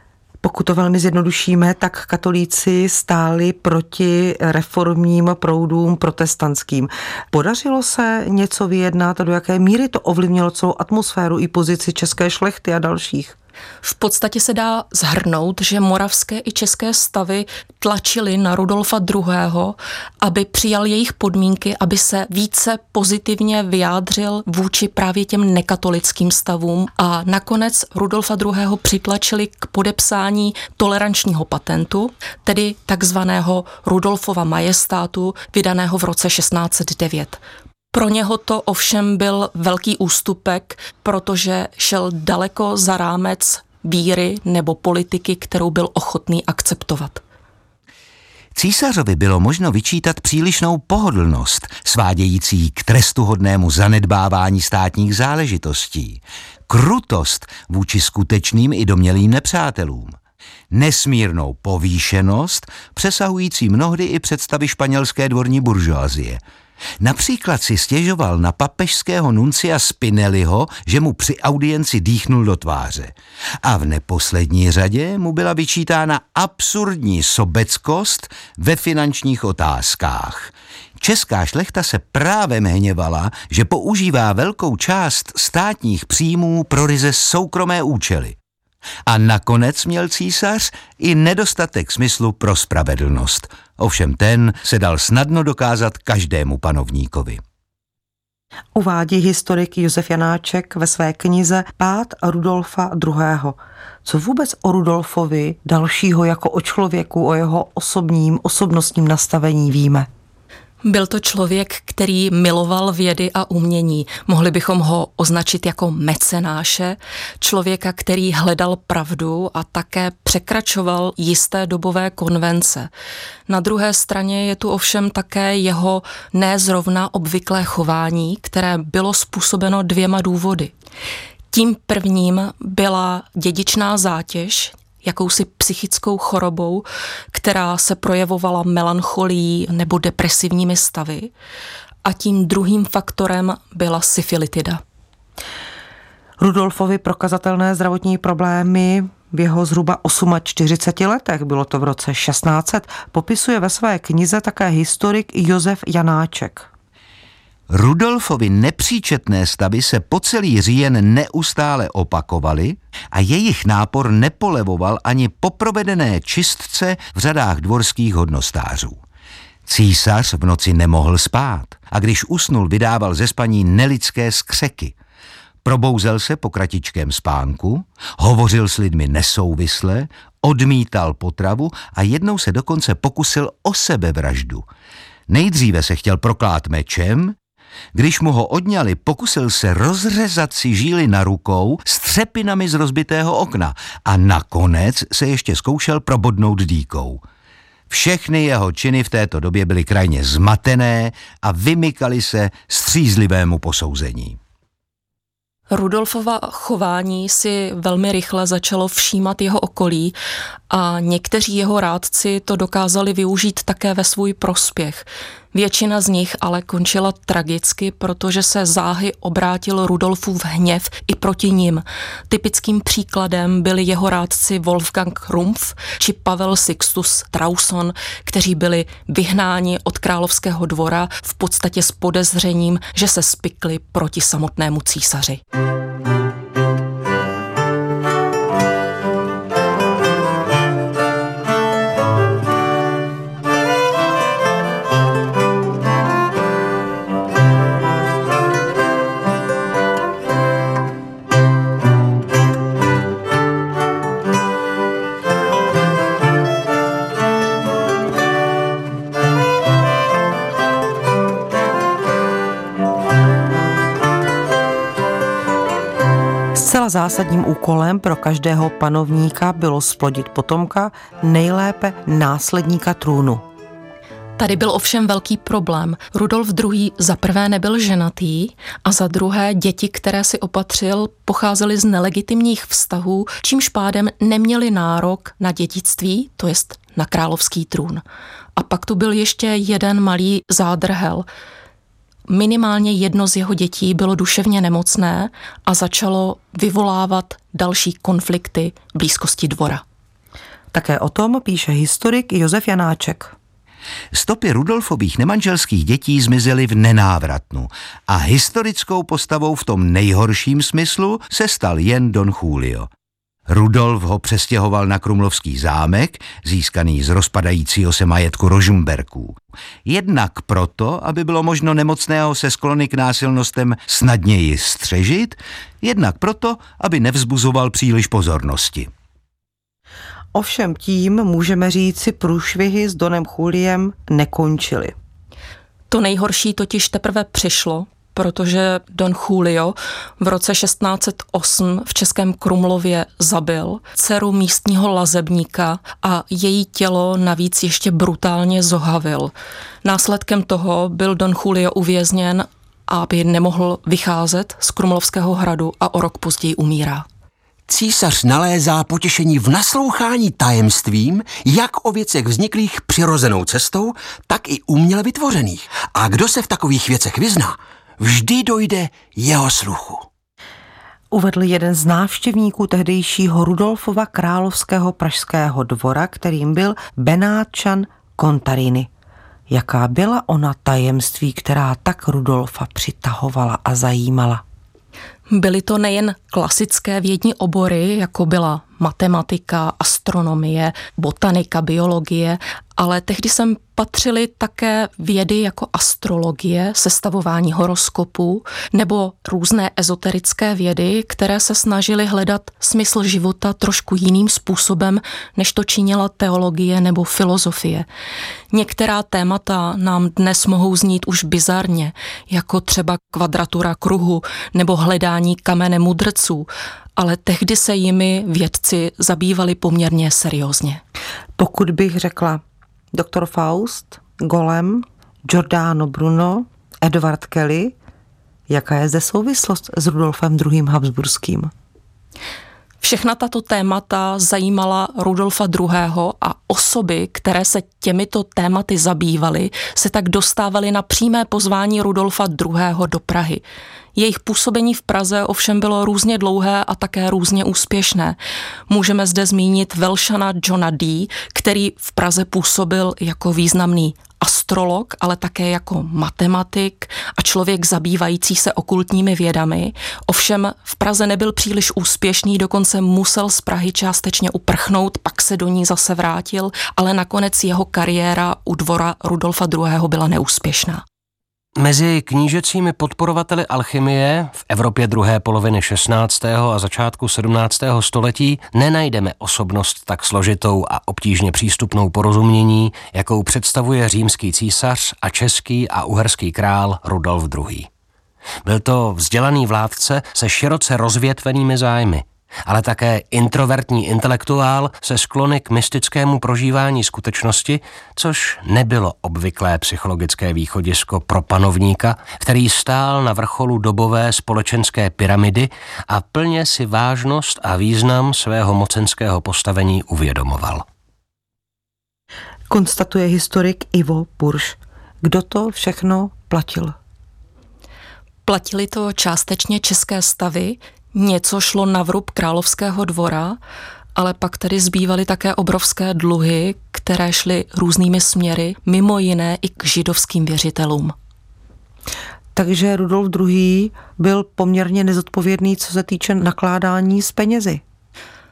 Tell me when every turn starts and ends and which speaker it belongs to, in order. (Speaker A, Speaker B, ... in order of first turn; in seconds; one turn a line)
Speaker A: 0.4-13.3
Speaker B: 13.8-37.4
Speaker B: 37.9-47.2
Speaker C: 48.5-60.2
Speaker C: 60.7-66.4
Speaker C: 67.0-88.4
Speaker C: 89.0-97.4
Speaker A: 98.7-110.1
Speaker B: 110.8-122.9
Speaker B: 123.5-130.7
Speaker B: 131.5-141.3
Speaker B: 142.0-144.8
Speaker A: 146.4-156.7
Speaker C: 157.7-169.0
Speaker C: 169.7-174.9
Speaker C: 175.6-184.7
Speaker C: 185.3-187.3
Speaker C: 187.9-197.2
Speaker C: 197.9-204.4
Speaker B: 205.7-210.2
Speaker B: 210.7-235.4
Speaker A: 266.5-273.4
Speaker B: 274.4-288.0
Speaker B: 288.6-291.2
Speaker B: 292.3-299.8
Speaker A: 300.7-303.3
Speaker C: 304.1-312.9
Speaker C: 313.5-328.9
Speaker A: 330.3-334.9
Speaker B: 335.9-349.3
Speaker B: 349.8-357.1
Speaker D: 357.7-370.1
Speaker A: 371.1-378.9
Speaker A: 379.5-384.4
Speaker B: 385.3-407.9
Speaker B: 408.5-420.8
Speaker A: 421.4-422.4
Speaker A: 422.9-427.7
Speaker A: 428.5-431.5
Speaker B: 432.8-443.4
Speaker B: 443.9-448.2
Speaker B: 448.7-470.8
Speaker E: 471.6-487.7
Speaker E: 488.4-510.6
Speaker A: 512.5-516.7
Speaker B: 518.2-523.4
Speaker B: 524.0-530.9
Speaker A: 532.3-537.6